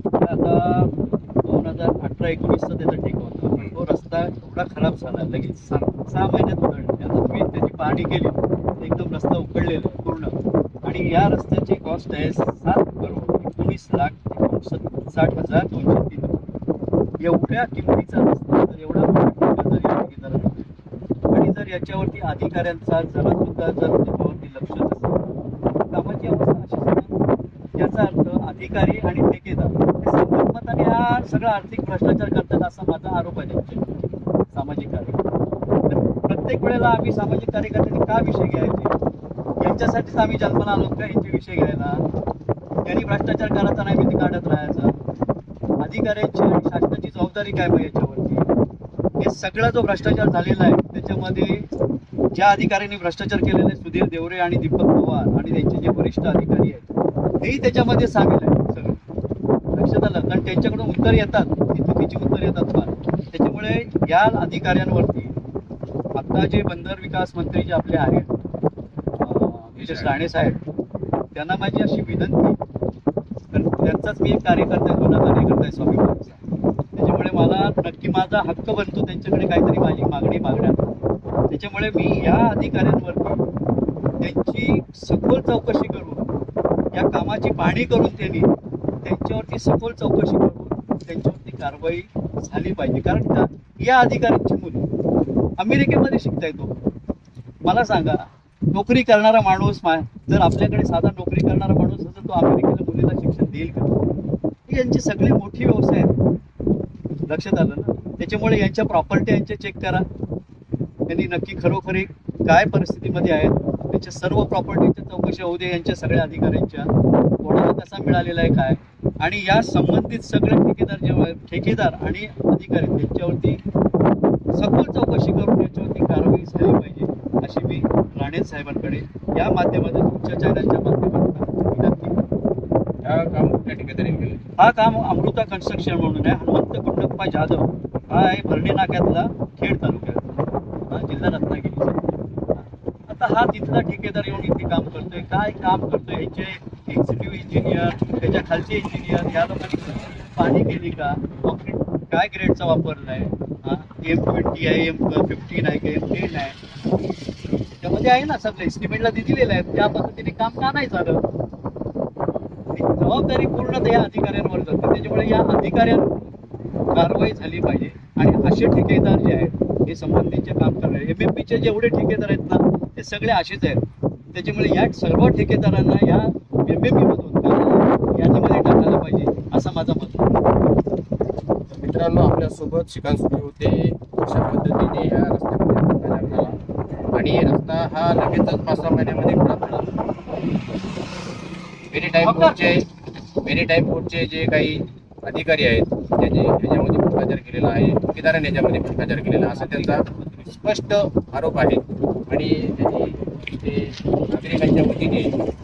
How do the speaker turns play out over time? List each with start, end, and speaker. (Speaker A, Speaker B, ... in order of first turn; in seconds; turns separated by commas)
Speaker A: 0.2-16.5, Speaker A: 17.2-20.7, Speaker A: 21.3-25.2, Speaker A: 25.9-27.2, Speaker A: 27.8-33.9, Speaker A: 34.5-35.2, Speaker A: 35.9-39.0, Speaker A: 39.6-42.1, Speaker A: 42.9-45.0, Speaker A: 45.8-48.5, Speaker A: 49.2-51.7, Speaker A: 52.3-56.9, Speaker A: 57.4-59.1, Speaker A: 59.7-65.4, Speaker A: 66.2-68.3, Speaker A: 69.2-70.6, Speaker B: 69.8-70.2, Speaker A: 71.3-72.6, Speaker A: 73.5-76.4, Speaker A: 77.0-83.5, Speaker A: 84.2-86.3, Speaker A: 86.9-88.5, Speaker A: 89.0-94.9, Speaker A: 95.6-96.7, Speaker A: 97.6-104.0, Speaker A: 104.7-106.2, Speaker A: 107.3-110.1, Speaker A: 111.1-123.6, Speaker A: 124.5-132.3, Speaker B: 133.0-134.4, Speaker A: 134.6-156.6, Speaker A: 157.8-161.2, Speaker A: 162.7-166.3, Speaker A: 166.9-180.4, Speaker B: 181.7-186.6, Speaker B: 187.1-189.9, Speaker B: 191.9-192.9, Speaker A: 192.2-192.6, Speaker B: 193.4-205.4, Speaker A: 199.5-200.4